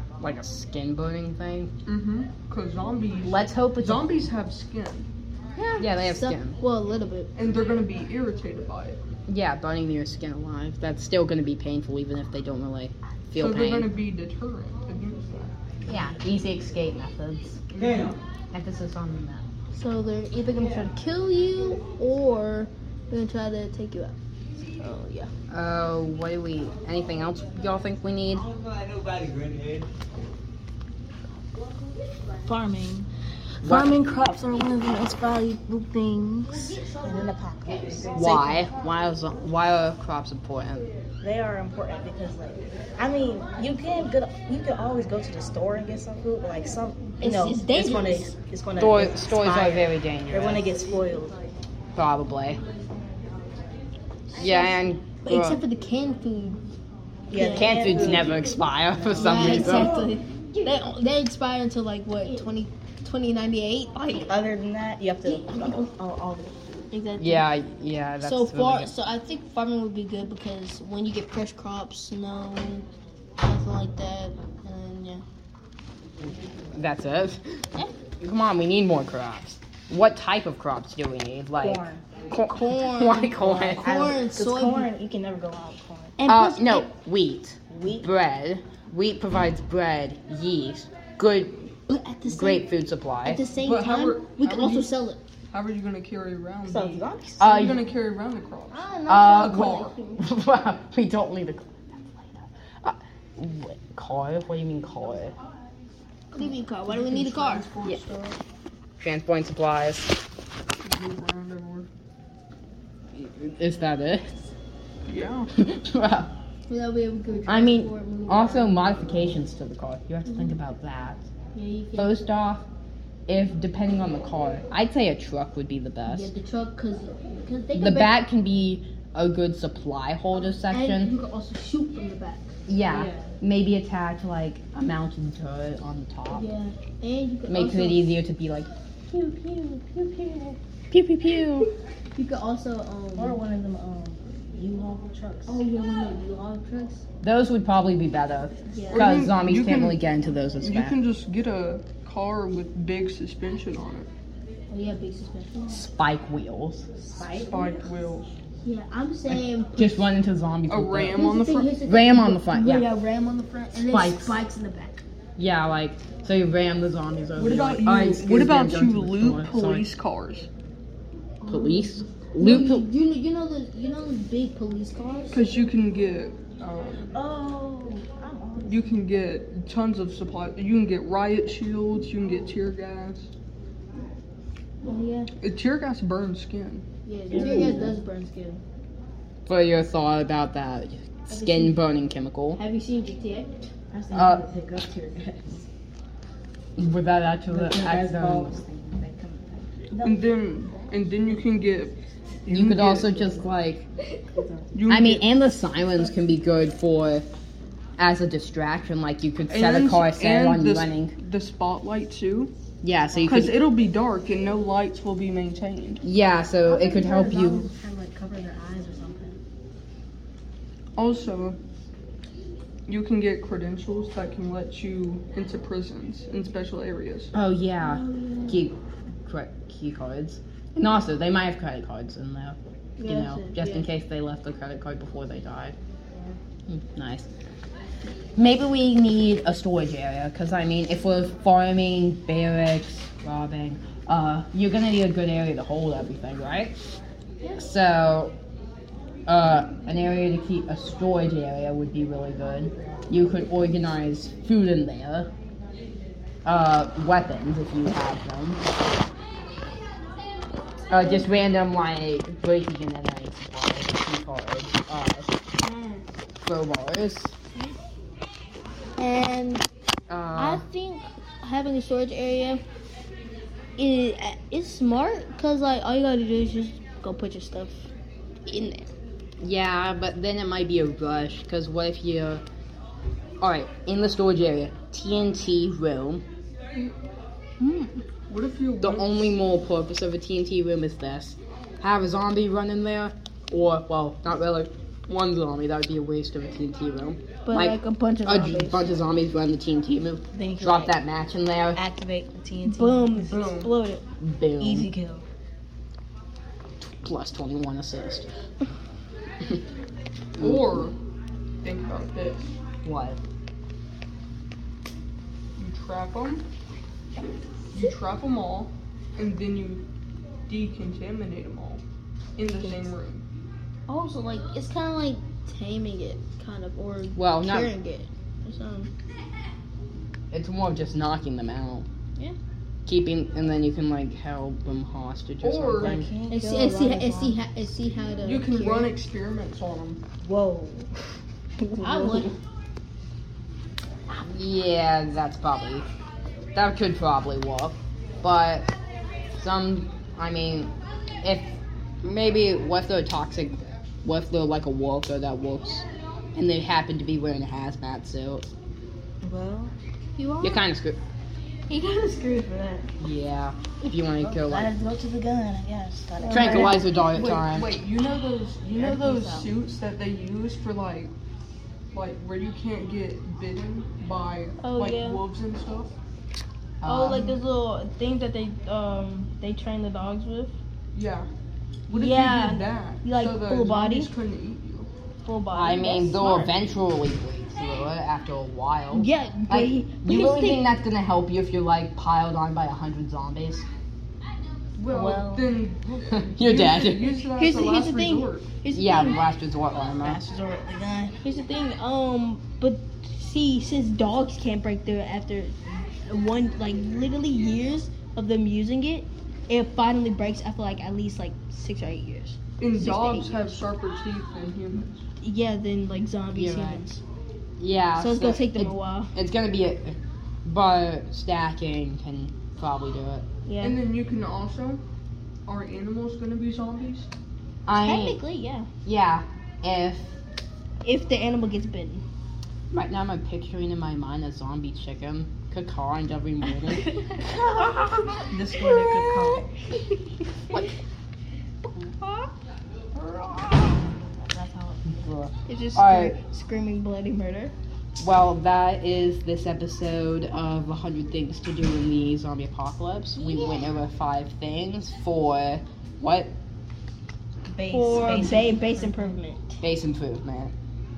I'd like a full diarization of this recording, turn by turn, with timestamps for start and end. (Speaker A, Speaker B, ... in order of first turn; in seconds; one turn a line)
Speaker A: 0.2-1.7
Speaker B: 1.8-5.1
Speaker A: 3.2-4.1
Speaker C: 5.6-7.3
Speaker A: 5.6-6.6
Speaker B: 7.3-9.0
Speaker A: 9.3-13.9
Speaker B: 13.3-15.5
Speaker A: 15.9-17.6
Speaker B: 17.7-18.2
Speaker A: 18.5-19.4
Speaker C: 19.7-24.1
Speaker C: 24.8-25.3
Speaker A: 25.5-28.5
Speaker D: 32.4-33.0
Speaker A: 33.6-33.9
Speaker C: 33.7-36.7
Speaker D: 36.6-38.6
Speaker A: 38.1-40.9
Speaker D: 41.2-51.5
Speaker C: 47.2-48.3
Speaker A: 48.8-50.6
Speaker A: 51.9-52.6
Speaker A: 54.3-55.6
Speaker C: 54.4-56.6
Speaker D: 57.3-60.2
Speaker C: 57.3-58.2
Speaker A: 57.5-60.0
Speaker C: 59.2-64.4
Speaker D: 64.3-66.9
Speaker C: 65.2-65.8
Speaker C: 66.9-67.4
Speaker A: 67.2-68.9
Speaker C: 68.2-72.8
Speaker C: 73.4-75.2
Speaker A: 76.7-77.6
Speaker A: 78.2-84.0
Speaker D: 81.6-82.0
Speaker C: 82.3-84.9
Speaker D: 83.4-86.2
Speaker C: 86.2-86.9
Speaker A: 86.2-91.7
Speaker D: 87.7-88.1
Speaker C: 91.9-92.7
Speaker A: 92.2-93.4
Speaker C: 93.2-95.2
Speaker B: 93.6-99.9
Speaker D: 96.7-97.5
Speaker A: 97.4-97.8
Speaker C: 98.7-100.2
Speaker A: 99.1-105.3
Speaker C: 106.3-107.7
Speaker B: 106.4-108.4
Speaker A: 109.0-110.1
Speaker B: 110.8-111.9
Speaker A: 113.1-114.5
Speaker B: 115.0-115.5
Speaker A: 115.5-116.3
Speaker C: 116.7-119.2
Speaker A: 117.5-121.2
Speaker C: 120.3-120.6
Speaker C: 121.5-122.2
Speaker A: 121.9-122.7
Speaker A: 123.3-126.3
Speaker C: 126.1-128.2
Speaker A: 127.7-131.1
Speaker C: 130.6-132.5
Speaker A: 132.7-136.4
Speaker D: 132.8-133.3
Speaker C: 136.3-138.1
Speaker A: 137.5-141.7
Speaker C: 142.2-143.4
Speaker D: 143.2-145.6
Speaker C: 145.5-147.0
Speaker A: 147.2-150.9
Speaker C: 148.7-149.1
Speaker B: 148.9-150.0
Speaker B: 150.6-154.1
Speaker C: 154.7-155.8
Speaker A: 155.7-156.8
Speaker D: 157.0-157.9
Speaker B: 157.2-158.3
Speaker C: 158.6-160.1
Speaker A: 159.3-161.3
Speaker B: 160.7-161.8
Speaker C: 161.1-165.0
Speaker A: 161.8-162.9
Speaker A: 163.8-164.4
Speaker A: 165.4-169.9
Speaker B: 167.4-170.5
Speaker C: 171.4-175.5
Speaker A: 171.4-172.9
Speaker B: 175.3-177.1
Speaker D: 177.1-178.9
Speaker B: 178.7-183.3
Speaker C: 184.8-185.3
Speaker B: 185.4-186.8
Speaker C: 187.0-188.6
Speaker D: 187.3-188.0
Speaker A: 187.5-187.8
Speaker A: 189.4-192.6
Speaker C: 191.3-191.8
Speaker C: 192.5-193.7
Speaker D: 193.9-195.7
Speaker A: 194.1-194.5
Speaker A: 196.8-198.6
Speaker D: 197.5-200.3
Speaker B: 200.0-203.5
Speaker A: 202.5-203.8
Speaker D: 204.3-204.8
Speaker B: 204.7-205.3
Speaker A: 204.9-207.3
Speaker A: 208.0-211.2
Speaker B: 209.5-212.5
Speaker A: 212.8-213.6
Speaker B: 213.2-216.0
Speaker A: 216.0-217.7
Speaker D: 216.6-219.4
Speaker B: 220.9-221.6
Speaker B: 222.9-227.3
Speaker A: 227.3-235.8
Speaker C: 227.8-228.6
Speaker C: 233.0-233.9
Speaker A: 236.7-237.3
Speaker A: 238.3-246.8
Speaker A: 247.5-248.3
Speaker A: 249.3-255.3
Speaker A: 256.4-258.6
Speaker A: 260.9-265.4
Speaker C: 265.7-265.9
Speaker A: 266.4-267.3
Speaker C: 269.0-269.7
Speaker A: 270.1-270.6
Speaker C: 270.3-272.6
Speaker C: 273.8-277.9
Speaker C: 278.4-278.9
Speaker A: 279.4-282.4
Speaker A: 283.4-286.2
Speaker C: 287.6-288.0
Speaker B: 288.3-289.4
Speaker A: 288.8-301.8
Speaker C: 297.4-299.0
Speaker D: 300.3-300.9
Speaker D: 301.7-303.3
Speaker C: 302.6-304.0
Speaker B: 303.3-303.8
Speaker A: 304.2-304.9
Speaker D: 304.6-305.2
Speaker A: 307.0-308.3
Speaker A: 310.4-310.9
Speaker B: 310.4-310.9
Speaker B: 311.6-312.5
Speaker A: 312.8-313.2
Speaker B: 315.6-316.4
Speaker B: 317.7-319.8
Speaker B: 320.5-321.8
Speaker B: 322.4-323.2
Speaker C: 323.9-328.9
Speaker A: 327.1-327.7
Speaker A: 330.3-331.9
Speaker A: 332.9-336.1
Speaker B: 335.4-336.0
Speaker D: 335.8-337.4
Speaker C: 336.3-338.9
Speaker B: 338.2-340.0
Speaker D: 340.2-340.9
Speaker D: 341.6-342.3
Speaker C: 341.8-342.3
Speaker A: 344.2-345.9
Speaker A: 346.5-348.7
Speaker A: 349.3-358.5
Speaker D: 359.2-359.7
Speaker C: 360.2-360.6
Speaker A: 360.4-361.0
Speaker C: 361.7-362.9
Speaker A: 363.0-364.7
Speaker D: 364.2-366.8
Speaker C: 366.2-366.8
Speaker A: 366.3-367.7
Speaker B: 366.4-371.1
Speaker C: 368.7-369.5
Speaker B: 371.9-375.9
Speaker C: 374.6-375.2
Speaker A: 376.8-377.3
Speaker C: 376.8-380.5
Speaker B: 380.9-381.3
Speaker B: 381.9-384.9
Speaker C: 381.9-384.1
Speaker C: 385.2-386.5
Speaker A: 385.5-393.6
Speaker C: 388.9-390.7
Speaker B: 394.8-398.5
Speaker D: 394.9-395.6
Speaker A: 396.3-397.2
Speaker C: 397.4-399.2
Speaker A: 398.7-400.2
Speaker D: 400.0-401.2
Speaker C: 401.2-413.6
Speaker B: 412.6-415.0
Speaker C: 415.2-417.0
Speaker A: 416.3-416.9
Speaker A: 417.6-423.2
Speaker C: 417.9-419.1
Speaker C: 423.4-423.8
Speaker B: 423.6-424.8
Speaker B: 425.4-427.1
Speaker A: 427.6-428.2
Speaker C: 427.8-428.7
Speaker A: 428.8-430.1
Speaker C: 430.8-432.0
Speaker A: 432.7-438.2
Speaker C: 436.7-437.7
Speaker D: 438.2-439.5
Speaker C: 438.6-440.6
Speaker C: 441.8-442.3
Speaker D: 444.3-444.9
Speaker A: 444.9-446.2
Speaker C: 445.5-447.5
Speaker A: 448.0-456.3
Speaker C: 453.2-453.5
Speaker D: 457.5-459.2
Speaker C: 457.7-459.6
Speaker A: 459.6-460.5